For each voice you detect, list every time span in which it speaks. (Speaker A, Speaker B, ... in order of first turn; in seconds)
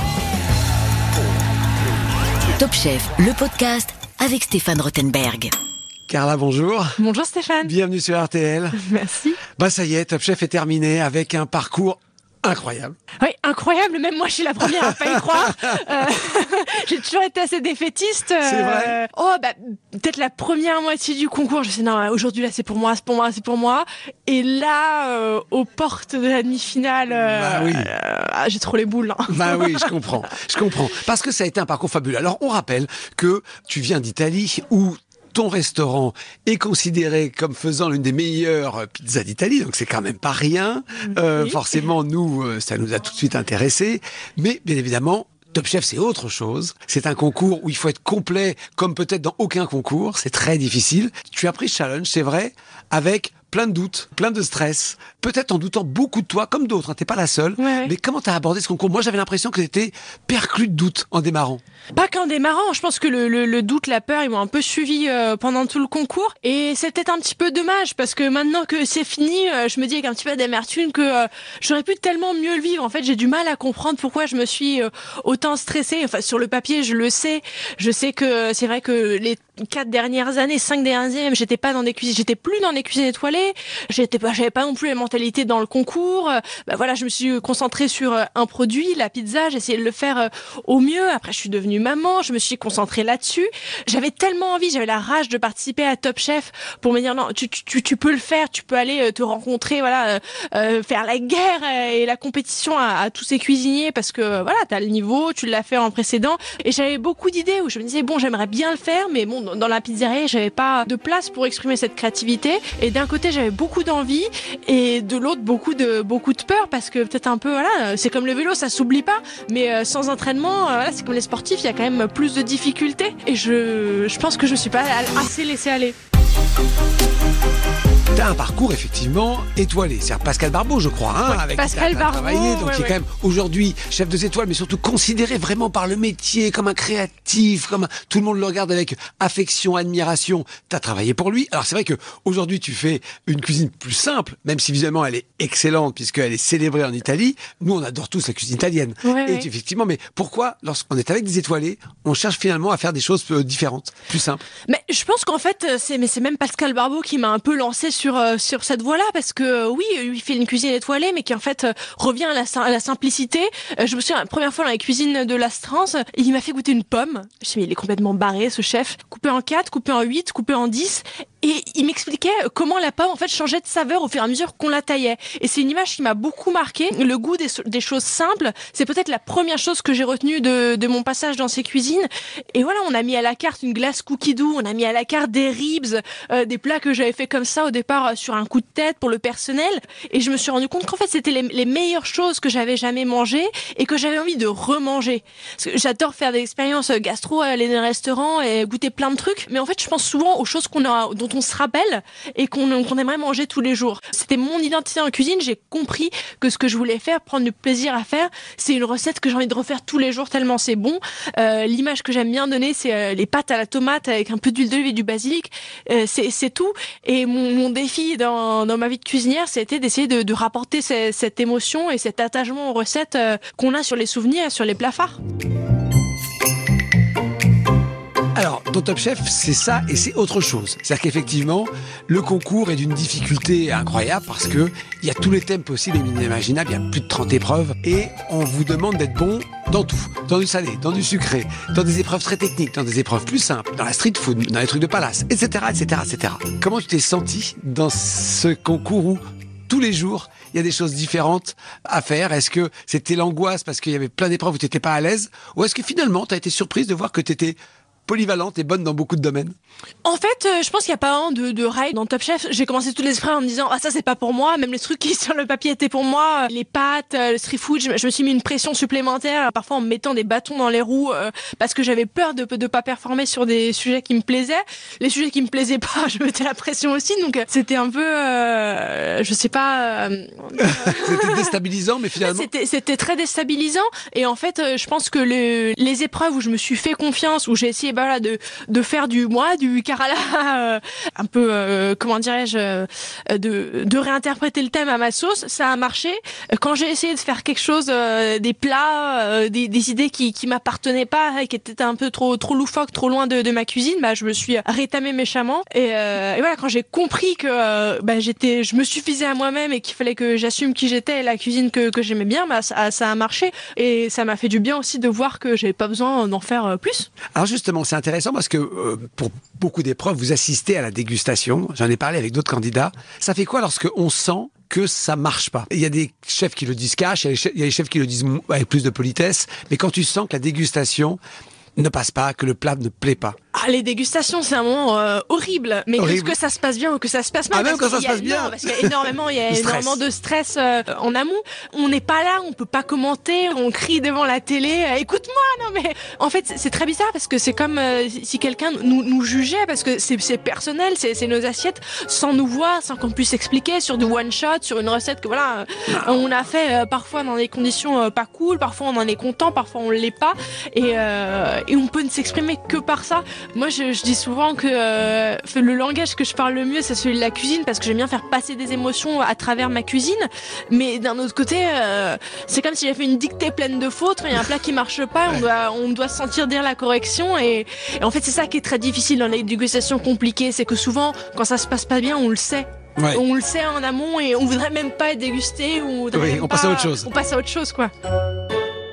Speaker A: 2.6-5.5
Speaker B: 6.1-7.0, 7.6-8.8, 9.5-12.9, 14.8-15.7, 18.4-19.0, 27.3-27.9, 29.3-61.6, 128.1-154.4, 228.3-259.5, 280.6-282.5, 317.3-331.2, 331.8-333.4, 336.0-336.4, 337.5-340.0, 355.9-356.2, 386.1-387.1
Speaker C: 7.0-7.7, 8.7-9.4, 13.2-30.1, 57.6-57.9, 61.9-125.9, 131.2-133.0, 149.0-149.5, 154.7-225.2, 260.0-281.5, 282.2-317.1, 333.5-387.9